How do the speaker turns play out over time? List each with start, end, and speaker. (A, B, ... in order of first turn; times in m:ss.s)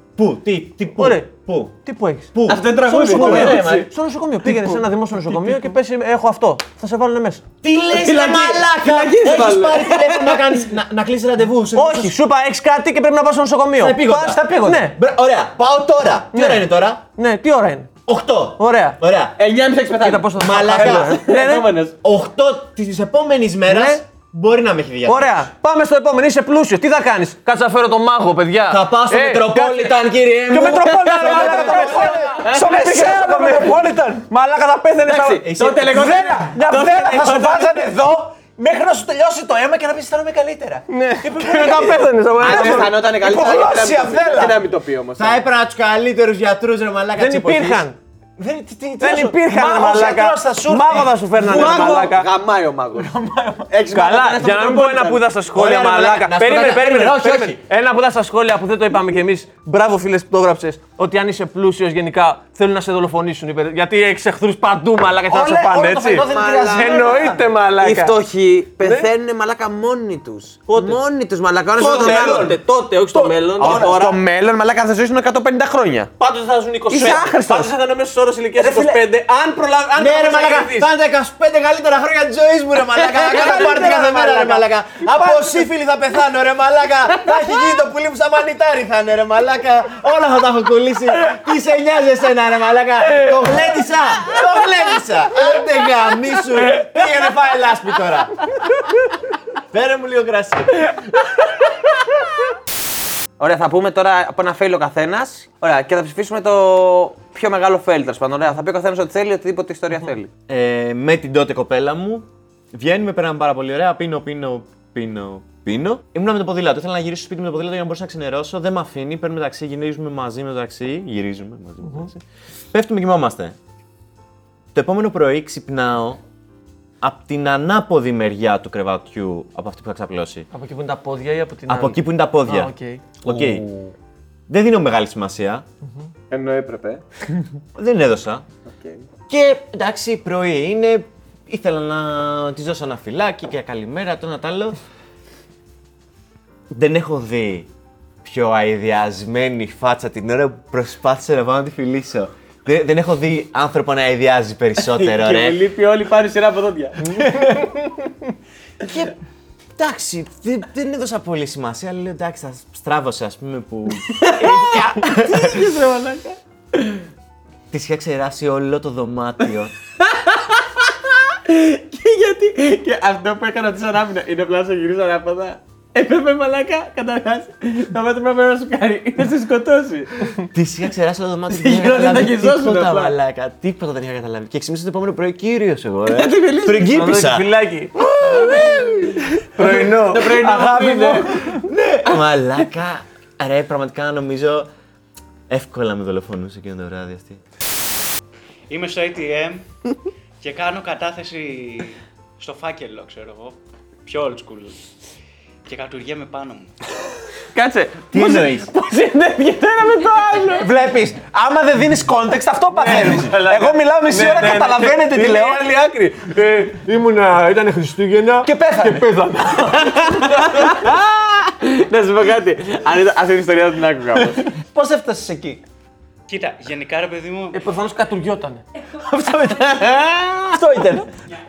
0:00.2-0:01.8 A
0:01.0-0:01.3 B
0:01.8-0:07.5 B
0:02.3-0:03.9 A
0:02.5-0:03.8 C
0:04.5-0:04.8 D
0:07.6-0:12.1 A
0:07.9-0:10.5 C
0:11.7-0:15.0 B
0:13.8-0:17.0 A
0:14.2-0:14.8 D
0:16.3-0:17.9 B
0:18.0-0:19.4 A
0:18.6-0:19.0 B
0:19.4-0:21.9 C
0:20.0-0:21.7 B
0:20.4-0:21.2 A
0:22.0-0:25.5 A
0:23.7-0:24.0 B
0:25.0-0:35.5 B
0:28.7-0:32.1 A
0:30.5-0:34.3 D
0:31.5-0:32.8 C
0:35.0-0:37.7 C
0:35.4-0:36.0 A
0:35.8-0:44.6 D
0:40.9-0:43.0 B
0:42.4-0:45.4 C
0:45.2-0:47.9 A
0:47.2-0:48.0 B
0:48.4-0:52.2 D
0:49.0-0:52.3 B
0:51.4-0:53.1 C
0:52.9-0:53.8 D
0:53.7-0:55.2 C
0:53.9-1:08.2 B
0:55.5-0:57.6 A
1:05.3-1:07.4 D
1:06.2-1:12.6 C
1:08.8-1:09.1 B
1:10.7-1:11.0 B
1:11.8-1:12.6 D
1:11.8-1:14.0 B
1:13.1-1:14.2 D
1:13.5-1:16.1 C
1:16.2-1:20.9 B
1:16.9-1:17.7 C
1:18.6-1:19.0 C
1:20.0-1:38.4 A
1:23.0-1:24.4 C
1:23.2-1:24.6 B
1:25.1-1:25.4 B
1:39.7-1:40.8 A
1:43.4-1:50.3 C
1:50.5-2:02.2 A
2:01.8-2:02.1 B
2:02.7-2:03.6 A
2:04.7-2:06.2 A
2:07.0-2:10.5 A
2:10.5-2:13.1 B
2:11.7-2:13.7 A
2:13.3-2:13.9 C
2:14.5-2:15.6 A
2:16.3-2:17.0 C
2:17.8-2:18.4 A
2:18.7-2:19.0 C
2:19.3-2:24.8 A
2:26.7-2:27.7 A
2:28.2-2:35.6 A
2:34.8-2:37.4 C
2:37.0-2:37.9 B
2:38.8-2:39.1 A
2:39.8-2:45.6 A
2:44.1-2:47.0 C
2:44.6-2:45.0 D
2:47.7-2:49.7 A
2:50.0-3:00.5 C
3:00.5-3:07.5 A
3:01.5-3:03.1 C
3:06.1-3:06.9 C
3:06.8-3:08.6 B
3:08.2-3:09.1 A
3:09.5-3:10.7 B
3:09.6-3:11.4 C
3:10.3-3:11.6 D
3:11.6-3:14.7 A
3:15.5-3:17.4 A
3:18.7-3:19.6 E
3:20.4-3:24.8 E
3:25.6-3:26.7 E
3:27.5-3:28.5 C
3:28.1-3:28.7 A
3:28.2-3:30.7 B
3:30.6-3:35.6 D
3:32.7-3:40.9 B
3:38.4-3:39.6 D
3:40.4-3:44.5 C
3:44.6-3:45.6 D
3:46.3-3:47.6 E
3:47.5-3:48.6 B
3:49.0-3:51.1 D
3:49.7-3:50.5 C